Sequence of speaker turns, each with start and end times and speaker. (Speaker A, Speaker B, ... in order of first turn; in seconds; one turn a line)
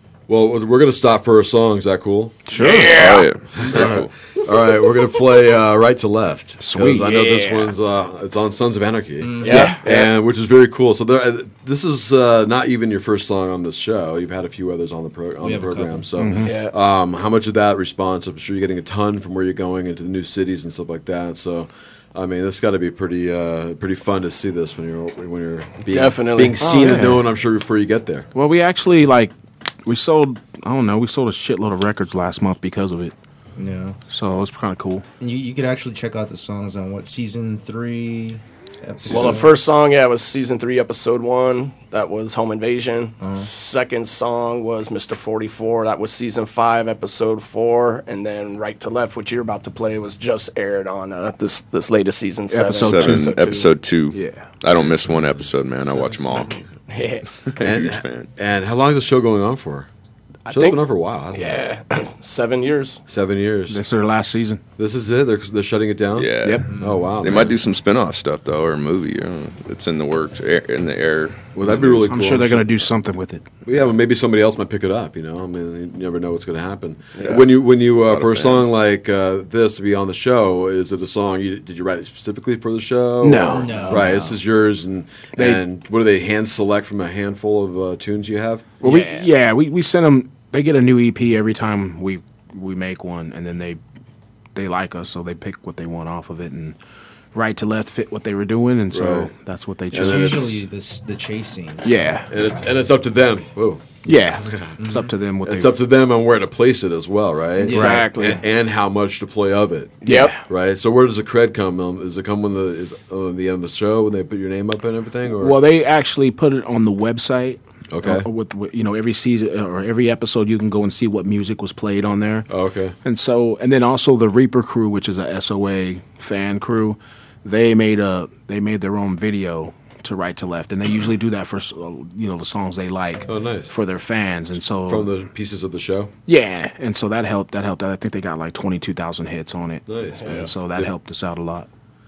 Speaker A: 0.3-2.4
Speaker B: 2.5-3.2
Speaker C: 2.5-3.3
Speaker D: 2.8-4.1
Speaker A: 3.5-28.3
Speaker B: 6.6-7.1
Speaker C: 7.0-7.8
Speaker E: 9.2-9.7
Speaker C: 9.4-10.1
Speaker B: 9.5-9.8
Speaker E: 15.4-16.1
Speaker B: 16.2-16.5
Speaker C: 16.4-16.7
Speaker C: 25.9-27.0
Speaker B: 26.6-27.2
Speaker B: 28.3-29.3
Speaker B: 29.8-33.1
Speaker E: 33.5-34.0
Speaker B: 34.1-35.0
Speaker E: 35.2-39.5
Speaker B: 39.0-39.4
Speaker C: 39.1-53.7
Speaker E: 43.2-43.5
Speaker B: 52.5-53.3
Speaker D: 52.7-56.6
Speaker B: 54.1-54.5
Speaker E: 56.0-56.6
Speaker C: 56.9-57.2
Speaker D: 57.5-58.3
Speaker A: 57.6-59.9
Speaker C: 60.5-63.0
Speaker A: 60.5-61.7
Speaker A: 63.1-63.8
Speaker B: 63.7-64.6
Speaker A: 64.8-67.6
Speaker D: 66.1-72.0
Speaker B: 66.4-66.7
Speaker E: 66.7-67.2
Speaker A: 71.5-72.7
Speaker B: 72.0-73.5
Speaker A: 73.6-88.7
Speaker D: 77.2-78.7
Speaker B: 83.2-84.1
Speaker E: 83.4-84.4
Speaker B: 85.4-85.6
Speaker B: 88.8-93.8
Speaker C: 88.8-89.2
Speaker B: 94.5-96.8
Speaker B: 97.3-100.6
Speaker A: 98.9-99.3
Speaker A: 99.9-100.6
Speaker E: 99.9-102.7
Speaker B: 101.8-102.3
Speaker A: 102.3-104.8
Speaker B: 104.0-105.7
Speaker E: 104.8-105.1
Speaker A: 105.4-115.6
Speaker E: 107.6-108.4
Speaker B: 107.7-108.3
Speaker C: 107.7-108.4
Speaker B: 110.0-110.4
Speaker C: 110.0-110.3
Speaker B: 115.4-122.5
Speaker A: 117.9-118.3
Speaker A: 122.5-123.0
Speaker B: 123.0-135.1
Speaker A: 133.2-133.7
Speaker A: 134.9-136.1
Speaker B: 136.3-141.7
Speaker A: 139.9-140.9